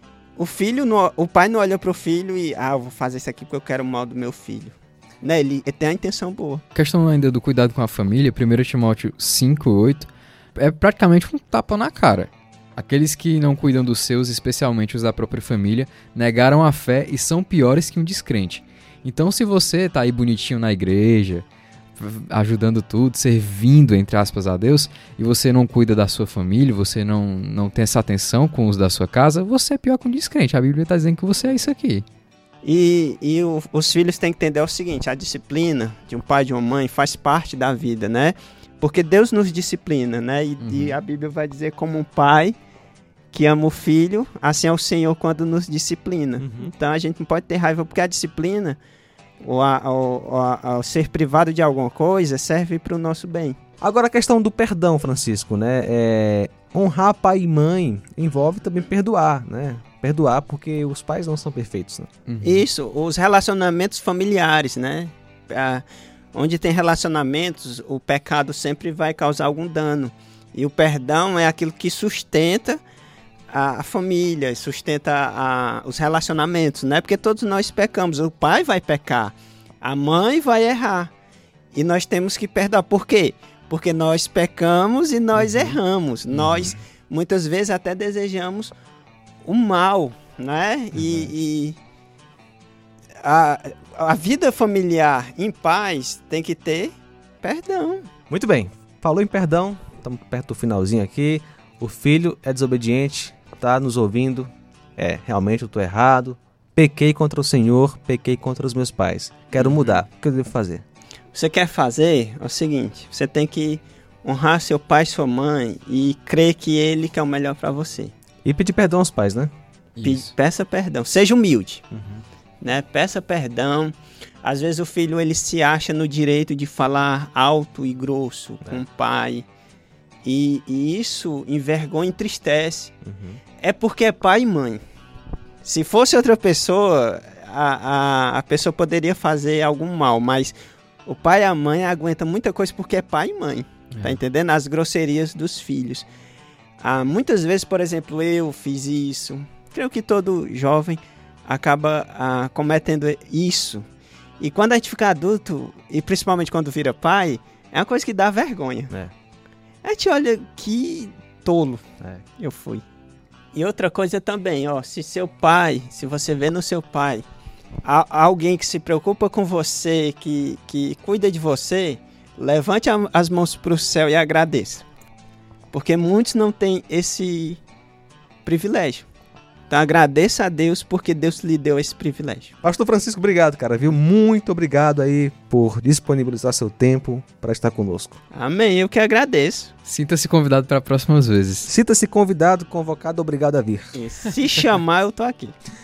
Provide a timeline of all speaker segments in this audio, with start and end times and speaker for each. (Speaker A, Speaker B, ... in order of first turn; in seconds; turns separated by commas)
Speaker A: 0.4-6.6, Speaker B: 6.8-21.5, Speaker B: 22.0-32.0, Speaker A: 32.6-42.6, Speaker B: 40.6-41.0, Speaker A: 43.3-48.8, Speaker C: 46.4-46.7, Speaker A: 49.4-53.6, Speaker C: 53.8-62.1, Speaker B: 62.3-62.6, Speaker A: 62.4-72.8, Speaker A: 73.5-81.1, Speaker A: 81.7-88.7, Speaker C: 85.4-85.8, Speaker C: 86.5-86.8, Speaker A: 89.4-91.8, Speaker C: 90.9-91.3, Speaker A: 93.2-98.1, Speaker C: 98.3-110.8, Speaker B: 109.6-110.0, Speaker A: 111.3-118.1, Speaker C: 118.5-119.5, Speaker B: 120.0-120.3, Speaker A: 120.0-121.8, Speaker C: 121.9-122.2, Speaker A: 122.6-129.5, Speaker A: 130.2-132.9, Speaker C: 133.1-133.4, Speaker A: 133.6-134.8, Speaker A: 135.6-140.6, Speaker A: 141.1-146.1, Speaker A: 146.8-153.8, Speaker A: 154.4-158.9, Speaker A: 159.8-161.8, Speaker A: 162.4-162.8, Speaker A: 163.5-167.2, Speaker A: 167.8-174.9, Speaker A: 175.7-177.6, Speaker A: 178.4-179.1, Speaker A: 179.7-182.5, Speaker C: 182.6-188.2, Speaker A: 188.3-189.7, Speaker B: 189.8-191.7, Speaker C: 191.7-194.0, Speaker A: 193.9-195.6